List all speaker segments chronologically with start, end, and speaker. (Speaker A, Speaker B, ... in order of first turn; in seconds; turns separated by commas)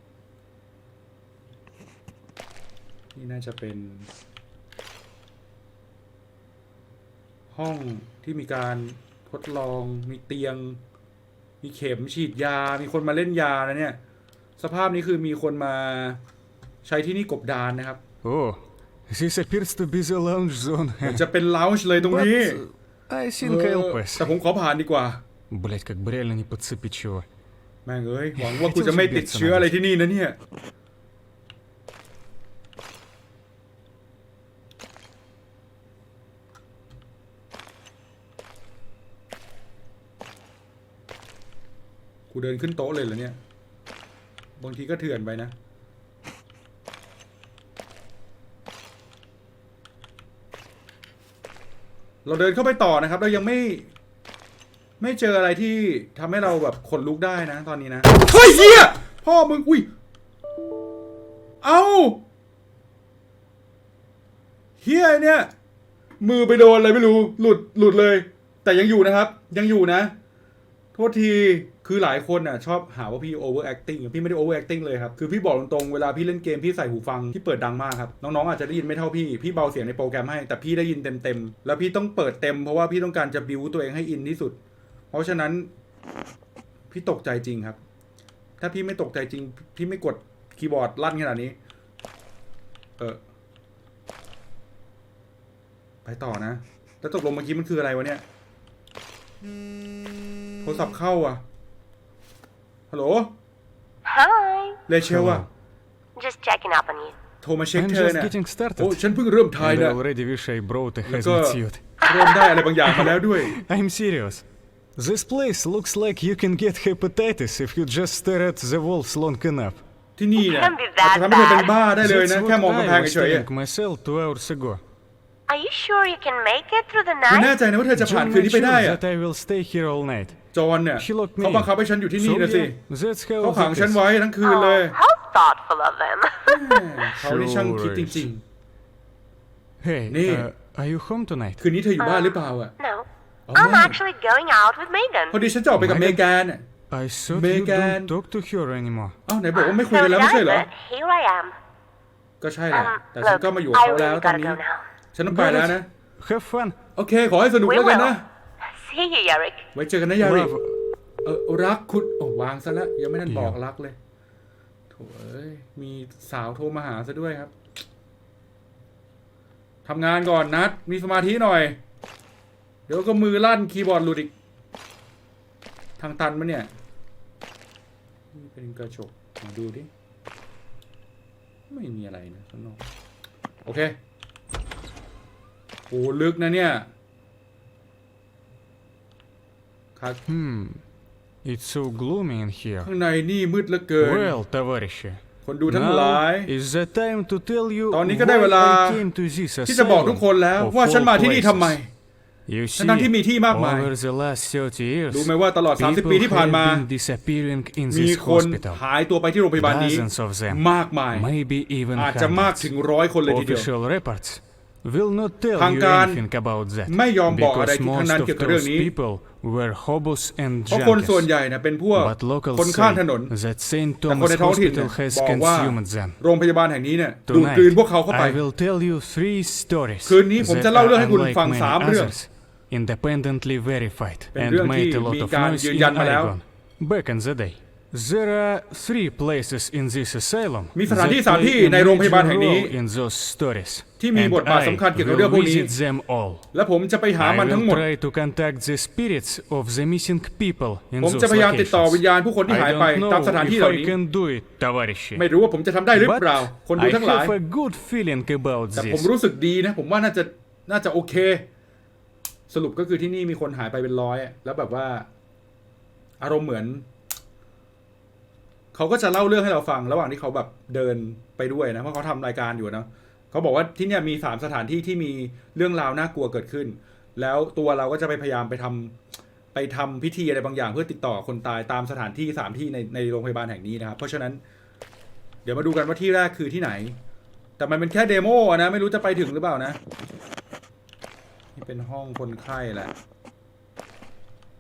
Speaker A: 3.1-4.1, Speaker A: 7.5-10.8, Speaker A: 11.6-14.0, Speaker A: 14.6-16.2, Speaker A: 16.8-18.0, Speaker B: 18.2-21.2, Speaker A: 21.0-22.6, Speaker B: 22.0-24.3, Speaker A: 23.4-25.2, Speaker B: 25.5-27.2, Speaker A: 27.8-30.4, Speaker B: 28.4-29.7, Speaker A: 42.3-43.4, Speaker A: 44.6-45.5, Speaker A: 52.2-53.9, Speaker A: 55.0-59.9, Speaker A: 61.6-62.2, Speaker A: 64.8-65.5, Speaker A: 66.2-70.1, Speaker A: 70.9-84.6, Speaker A: 85.1-85.7, Speaker A: 86.9-87.8, Speaker A: 88.6-91.5, Speaker A: 96.0-98.2, Speaker A: 100.6-101.4, Speaker A: 102.9-103.3, Speaker C: 104.0-104.8, Speaker A: 104.9-105.5, Speaker B: 105.0-105.5, Speaker C: 106.2-107.2, Speaker A: 107.4-110.0, Speaker B: 107.8-109.0, Speaker B: 109.5-111.8, Speaker A: 111.0-113.5, Speaker C: 112.0-112.7, Speaker B: 112.8-119.8, Speaker A: 120.2-123.5, Speaker C: 120.3-121.8, Speaker B: 122.0-124.8, Speaker C: 125.5-127.5, Speaker A: 127.3-129.0, Speaker B: 128.0-130.4, Speaker A: 130.5-132.8, Speaker B: 131.0-134.0, Speaker A: 133.4-134.9, Speaker C: 134.4-136.9, Speaker A: 136.5-138.4, Speaker B: 137.2-138.3, Speaker B: 139.8-141.6, Speaker A: 140.1-140.5, Speaker A: 141.6-142.7, Speaker C: 142.0-145.4, Speaker A: 143.5-144.0, Speaker A: 145.3-146.6, Speaker B: 145.7-146.2, Speaker B: 146.9-149.2, Speaker A: 147.3-148.1, Speaker A: 149.3-150.7, Speaker C: 149.5-151.5, Speaker A: 152.4-154.6, Speaker C: 152.7-154.8, Speaker A: 155.1-155.9, Speaker B: 155.3-156.8, Speaker A: 156.9-158.2, Speaker C: 157.6-159.7, Speaker A: 159.7-160.5, Speaker B: 160.2-160.8, Speaker A: 161.2-163.9, Speaker B: 163.2-163.6, Speaker A: 164.9-167.5, Speaker A: 169.8-171.8, Speaker A: 172.9-174.3, Speaker A: 176.0-176.7, Speaker A: 178.3-179.9, Speaker A: 181.7-182.8, Speaker A: 183.6-183.9, Speaker A: 185.9-186.9, Speaker A: 189.9-190.2, Speaker B: 190.3-190.8, Speaker B: 191.4-192.9, Speaker A: 192.8-194.4, Speaker B: 194.0-201.8, Speaker A: 195.4-196.5, Speaker A: 197.9-199.0, Speaker A: 199.7-201.9, Speaker B: 202.4-208.8, Speaker A: 202.8-203.9, Speaker A: 205.1-206.8, Speaker A: 207.9-211.3, Speaker B: 209.6-212.7, Speaker A: 211.9-213.7, Speaker B: 213.2-221.3, Speaker A: 215.6-216.2, Speaker A: 216.9-218.9, Speaker A: 220.7-223.3, Speaker B: 221.9-226.2, Speaker A: 224.1-228.4, Speaker B: 227.3-246.4, Speaker A: 230.0-232.1, Speaker A: 234.3-236.3, Speaker A: 240.7-242.7, Speaker A: 244.0-245.7, Speaker A: 246.5-247.8, Speaker B: 247.2-255.2, Speaker A: 251.0-253.9, Speaker A: 255.2-257.3, Speaker B: 255.9-259.1, Speaker A: 258.7-261.4, Speaker A: 262.5-265.1, Speaker A: 266.2-266.8, Speaker A: 268.7-279.0, Speaker A: 279.5-284.4, Speaker A: 285.4-287.0, Speaker A: 287.6-289.8, Speaker A: 291.6-292.9